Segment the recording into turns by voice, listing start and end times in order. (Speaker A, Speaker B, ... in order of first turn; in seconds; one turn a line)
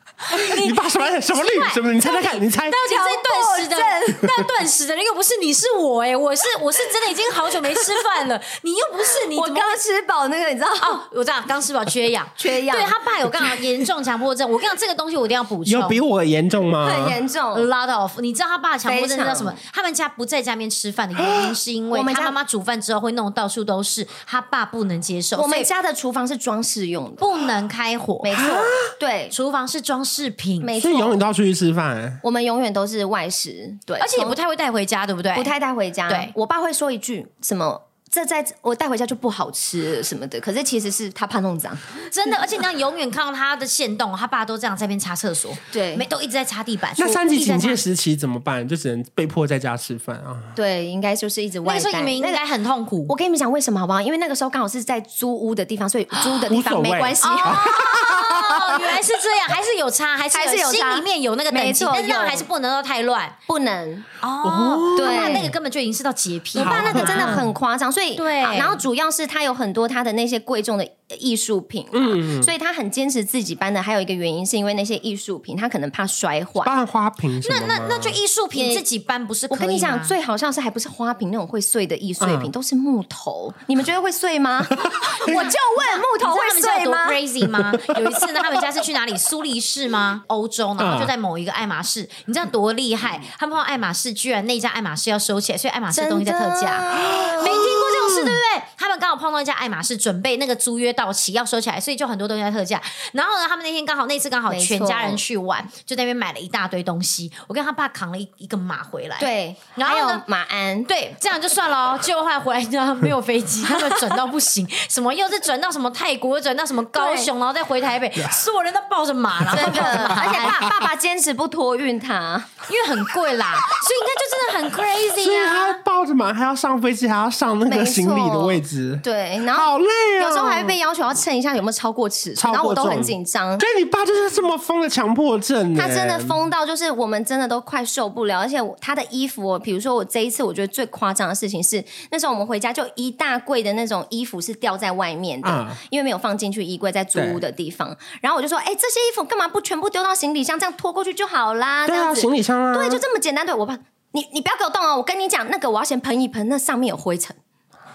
Speaker A: 0.3-9.8
Speaker B: 0.3-2.8
Speaker C: 2.8-4.5
Speaker C: 7.5-8.2
Speaker C: 9.2-11.0
Speaker A: 10.8-16.0
Speaker C: 12.4-13.5
Speaker B: 15.7-17.2
Speaker C: 16.8-17.7
Speaker A: 17.5-25.7
Speaker C: 18.9-19.6
Speaker B: 21.2-21.5
Speaker C: 21.9-22.4
Speaker C: 25.3-27.3
Speaker A: 27.2-28.5
Speaker C: 28.2-29.3
Speaker B: 28.3-28.9
Speaker A: 29.3-30.7
Speaker C: 30.6-31.2
Speaker B: 30.8-32.2
Speaker C: 32.2-34.4
Speaker A: 34.0-35.5
Speaker C: 35.3-41.9
Speaker A: 42.0-47.7
Speaker C: 45.7-46.0
Speaker B: 47.0-50.5
Speaker C: 47.3-47.8
Speaker C: 50.5-52.4
Speaker A: 51.6-53.1
Speaker C: 53.1-57.8
Speaker B: 56.5-58.8
Speaker A: 57.2-63.4
Speaker C: 60.3-62.5
Speaker C: 63.5-64.0
Speaker A: 64.2-67.5
Speaker B: 64.4-65.5
Speaker C: 64.9-65.5
Speaker C: 66.5-76.7
Speaker B: 66.6-67.4
Speaker A: 68.2-68.8
Speaker B: 71.9-72.5
Speaker B: 76.6-78.2
Speaker A: 77.4-80.1
Speaker C: 78.5-78.8
Speaker C: 79.5-87.2
Speaker B: 82.2-82.5
Speaker B: 84.8-85.5
Speaker A: 85.3-110.2
Speaker B: 87.7-88.2
Speaker B: 90.8-91.1
Speaker C: 95.9-97.9
Speaker B: 97.0-98.4
Speaker C: 104.5-105.2
Speaker C: 109.2-110.9
Speaker A: 110.9-120.7
Speaker C: 113.7-114.0
Speaker C: 116.9-117.3
Speaker C: 119.5-122.6
Speaker B: 119.5-120.0
Speaker A: 122.7-125.8
Speaker B: 125.2-130.8
Speaker C: 127.7-133.6
Speaker B: 132.4-136.4
Speaker C: 135.8-157.4
Speaker B: 145.4-145.8
Speaker B: 147.1-147.4
Speaker B: 151.8-153.0